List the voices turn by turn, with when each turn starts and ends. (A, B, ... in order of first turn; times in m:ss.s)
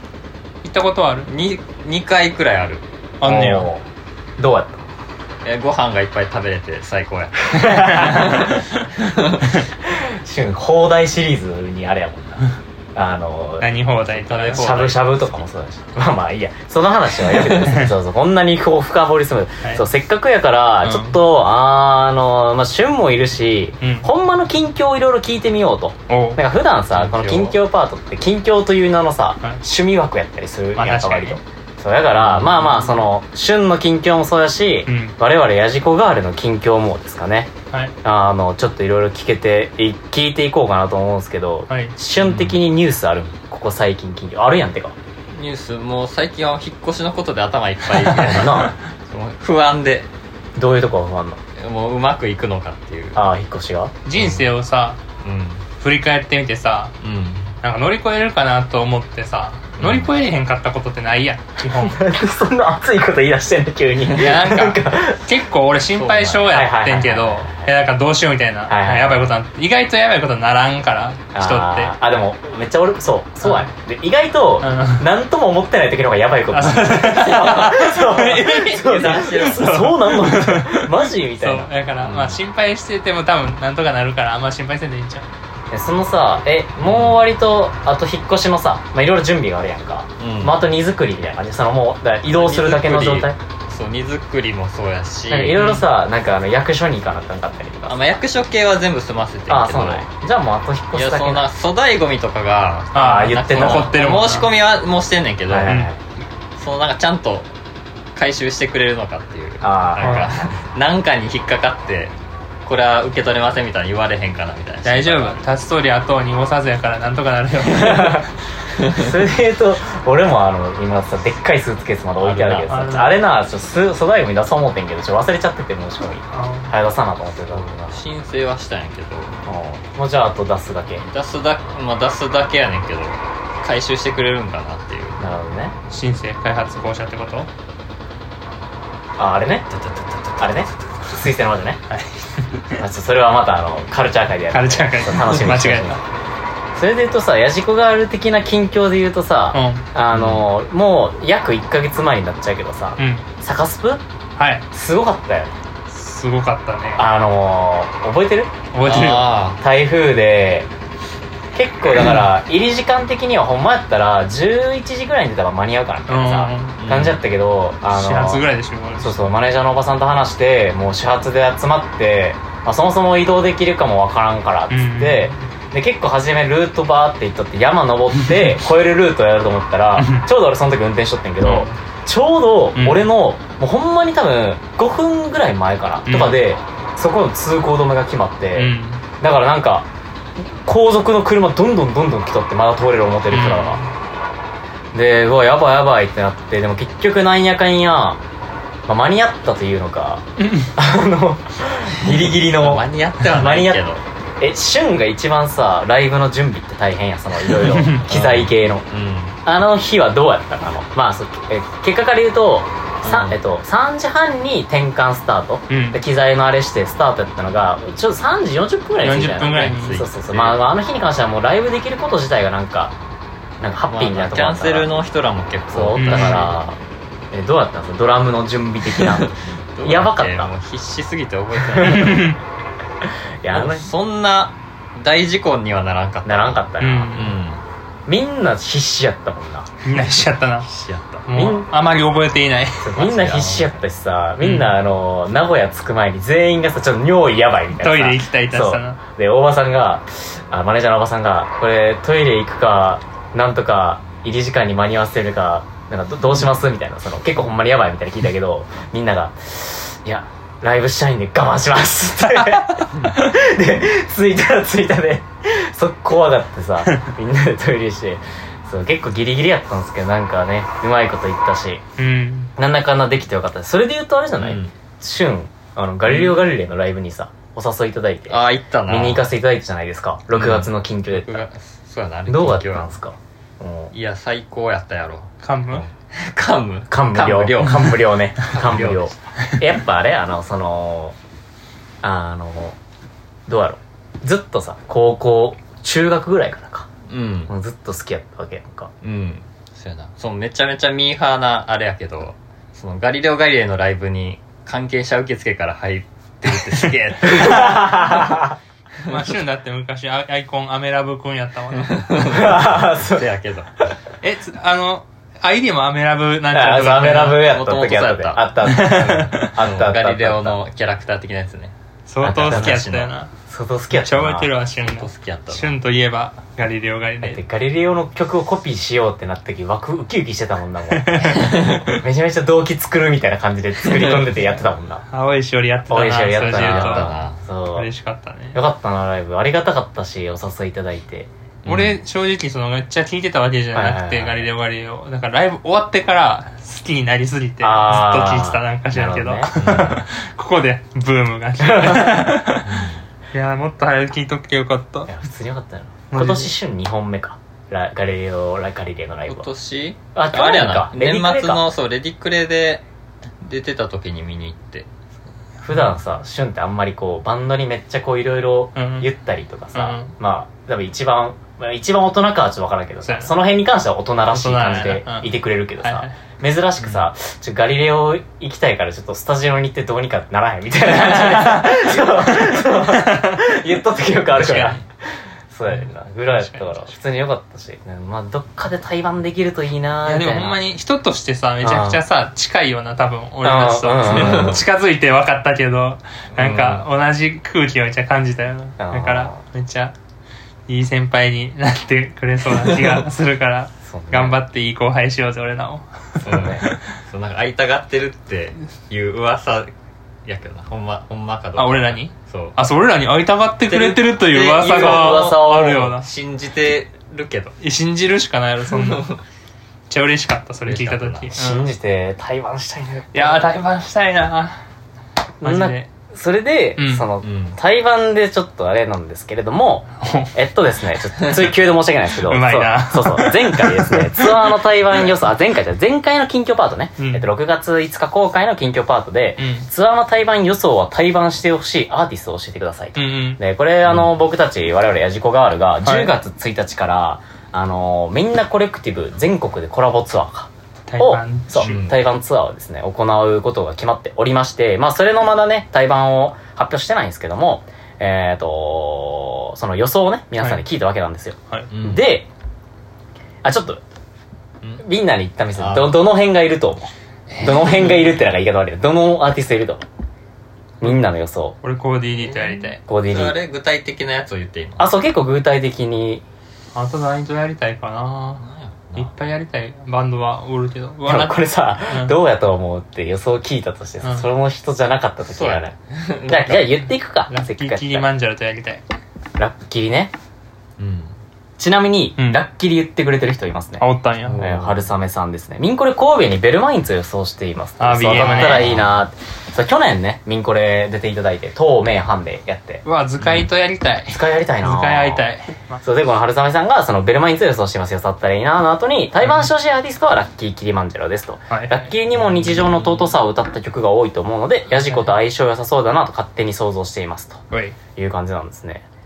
0:00.6-0:01.3 A
0:01.3-0:02.8 B
0:03.2-0:03.7 A
0:03.2-0:03.9 C
0:04.4-0:04.8 C
0:05.4-0:09.5 B
0:07.5-0:08.5 C
0:07.5-0:08.8 A
0:09.8-0:13.7 C
0:13.6-0:14.7 A
0:14.1-0:15.1 B
0:14.6-0:37.5 C
0:17.2-0:17.9 A
0:20.8-0:21.2 A
0:23.8-0:24.1 A
0:26.1-0:26.4 A
0:26.9-0:27.6 B
0:30.8-0:31.4 A
0:32.2-0:33.0 B
0:34.9-0:35.2 A
0:38.0-0:45.0 C
0:41.7-0:42.0 A
0:42.2-0:42.6 B
0:45.3-0:50.1 B
0:48.3-0:48.8 C
0:50.6-0:51.4 C
0:51.6-0:53.2 B
0:53.2-0:53.9 C
0:54.0-0:55.0 A
0:54.1-0:54.5 B
0:55.2-0:55.7 B
0:55.8-0:57.0 A
0:57.0-0:57.6 B
0:57.6-1:02.0 A
0:59.8-1:00.1 B
1:01.8-1:05.2 C
1:04.2-1:12.0 A
1:05.9-1:06.7 B
1:06.5-1:07.7 C
1:08.7-1:09.3 C
1:11.4-1:21.7 C
1:13.4-1:13.7 A
1:14.6-1:15.1 A
1:16.5-1:25.3 A
1:18.8-1:19.7 B
1:22.0-1:22.4 B
1:25.7-1:33.4 C
1:26.8-1:27.3 B
1:30.2-1:30.6 B
1:32.3-1:35.6 B
1:35.3-1:38.2 C
1:35.6-1:35.9 A
1:37.9-1:40.1 B
1:39.5-1:41.5 C
1:40.9-1:45.8 B
1:42.9-1:44.0 C
1:42.9-1:44.5 A
1:45.5-1:46.0 C
1:45.7-1:45.9 A
1:46.6-1:47.5 B
1:48.2-1:55.4 B
1:49.6-1:50.3 C
1:50.0-1:50.4 A
1:54.8-1:58.3 A
1:57.7-1:58.2 C
1:58.9-2:08.0 C
2:02.2-2:02.7 B
2:02.7-2:03.2 A
2:06.3-2:06.7 A
2:07.5-2:09.4 B
2:09.4-2:11.1 C
2:11.0-2:15.2 B
2:15.2-2:15.8 C
2:15.9-2:17.5 A
2:19.2-2:19.7 C
2:19.7-2:21.2 B
2:20.4-2:21.8 C
2:21.9-2:22.8 A
2:22.8-2:26.0 C
2:24.5-2:26.0 A
2:26.8-2:34.0 C
2:29.5-2:29.8 A
2:30.1-2:30.5 B
2:33.0-2:33.3 A
2:34.4-2:34.6 A
2:34.7-2:35.6 C
2:35.9-2:37.0 A
2:37.0-2:38.5 C
2:38.7-2:39.3 A
2:38.8-2:39.6 B
2:39.6-2:40.7 C
2:41.5-2:48.5 C
2:46.1-2:46.8 A
2:46.8-2:47.2 B
2:47.9-2:49.3 A
2:49.0-3:09.9 C
2:54.7-2:55.4 A
2:58.1-2:58.6 A
3:00.0-3:00.3 A
3:01.4-3:01.8 A
3:02.8-3:03.1 A
3:06.1-3:06.4 A
3:08.6-3:09.1 A
3:10.5-3:13.8 C
3:13.3-3:13.9 A
3:14.9-3:18.2 C
3:18.9-3:20.2 C
3:20.4-3:20.7 A
3:20.8-3:23.8 C
3:22.4-3:24.0 B
3:24.4-3:28.9 C
3:27.5-3:28.1 A
3:28.0-3:29.4 B
3:29.4-3:43.0 C
3:33.0-3:33.4 B
3:35.7-3:36.0 A
3:39.0-3:40.0 A
3:39.5-3:40.7 B
3:43.6-3:44.9 C
3:43.9-3:46.6 B
3:45.7-3:46.8 C
3:46.0-3:46.5 A
3:47.3-3:49.3 C
3:48.9-3:52.2 B
3:49.8-3:50.5 C
3:51.8-3:52.1 C
3:51.8-3:52.4 A
3:53.4-3:53.9 C
3:53.5-3:57.6 B
3:56.2-3:57.1 C
3:56.8-3:57.4 A
3:58.1-3:59.7 C
3:59.8-4:00.7 A
4:00.6-4:01.3 B
4:01.3-4:02.9 A
4:01.3-4:01.7 C
4:02.8-4:31.8 C
4:03.0-4:03.8 B
4:04.4-4:04.7 A
4:07.8-4:09.0 A
4:22.4-4:22.8 A
4:32.0-4:32.5 A
4:32.6-4:41.4 C
4:34.4-4:34.7 B
4:36.1-4:36.4 B
4:38.3-4:39.3 B
4:40.4-4:42.9 B
4:42.3-4:43.9 C
4:43.9-4:49.2 B
4:45.4-4:45.9 A
4:46.9-4:51.2 C
4:52.0-4:52.8 C
4:53.5-4:56.9 C
4:57.1-4:57.5 B
4:57.5-4:58.9 C
4:59.0-5:08.0 B
5:07.3-5:08.6 C
5:07.5-5:08.2 A
5:09.1-5:12.0 A
5:11.8-5:13.7 B
5:12.2-5:13.3 C
5:14.2-5:17.5 A
5:16.5-5:20.6 C
5:17.5-5:21.8 B
5:18.6-5:19.6 A
5:22.1-5:23.3 A
5:22.2-5:22.8 C
5:22.4-5:23.2 B
5:23.5-5:24.5 C
5:23.9-5:27.4 A
5:24.8-5:25.8 B
5:27.2-5:35.0 C
5:30.9-5:32.0 A
5:31.3-5:31.8 B
5:33.8-5:34.2 A
5:35.1-5:37.2 A
5:35.9-5:37.9 C
5:36.5-5:37.4 B
5:37.7-5:38.6 A
5:38.5-5:41.3 C
5:41.6-5:42.0 B
5:41.7-5:55.1 A
5:43.7-5:44.5 C
5:47.6-5:49.5 C
5:49.6-5:50.0 B
5:52.6-5:53.0 B
5:55.1-5:59.5 C
5:56.1-5:56.6 A
5:59.3-6:02.8 B
6:00.2-6:01.6 C
6:03.4-6:04.9 B
6:05.6-6:24.9 C
6:08.8-6:09.1 A
6:09.7-6:10.2 A
6:13.0-6:13.3 A
6:14.3-6:16.2 A
6:16.8-6:17.1 B
6:20.8-6:23.5 A
6:24.3-6:24.8 A
6:25.5-6:30.6 C
6:25.7-6:27.0 A
6:30.1-6:39.9 A
6:31.6-6:32.0 C
6:33.4-6:34.6 C
6:34.1-6:34.6 B
6:36.4-6:36.9 B
6:38.8-6:39.4 C
6:40.7-6:46.8 A
6:43.8-6:44.4 C
6:46.2-6:46.7 C
6:46.2-6:49.7 B
6:50.2-6:52.6 B
6:51.6-6:56.1 A
6:53.7-6:57.6 B
6:54.6-6:56.0 C
6:57.6-6:59.1 A
6:58.7-6:59.2 B
6:59.9-7:01.7 A
7:00.6-7:01.3 B
7:01.3-7:03.5 C
7:03.1-7:04.6 A
7:05.4-7:05.9 A
7:05.4-7:42.3 C
7:06.8-7:07.1 A
7:07.2-7:07.6 B
7:10.0-7:10.3 A
7:12.1-7:14.6 A
7:17.0-7:17.2 A
7:19.4-7:19.7 A
7:23.0-7:23.4 A
7:25.8-7:26.1 A
7:30.9-7:31.8 A
7:31.6-7:32.0 B
7:40.4-7:40.6 A
7:41.7-7:42.1 B
7:43.4-7:43.8 C
7:44.8-7:49.8 C
7:45.6-7:46.1 B
7:47.3-7:47.9 A
7:50.8-7:51.6 C
7:51.6-7:52.8 A
7:52.2-7:54.9 B
7:52.9-7:53.4 C
7:54.8-7:56.2 C
7:56.8-7:58.4 A
7:58.4-7:59.2 B
7:59.0-8:02.2 A
8:01.1-8:05.8 C
8:05.3-8:06.8 B
8:06.3-8:08.1 C
8:07.3-8:08.8 A
8:09.4-8:10.1 C
8:10.8-8:11.2 B
8:11.6-8:22.8 C
8:12.2-8:12.4 A
8:13.8-8:14.4 A
8:14.2-8:14.9 B
8:17.8-8:18.8 A
8:18.1-8:19.0 B
8:22.8-8:25.8 A
8:23.2-8:23.5 B
8:24.1-8:25.3 C
8:25.8-8:37.4 C
8:31.5-8:31.9 A
8:32.2-8:33.2 B
8:34.8-8:35.2 A
8:37.5-8:37.8 A
8:38.0-8:38.8 C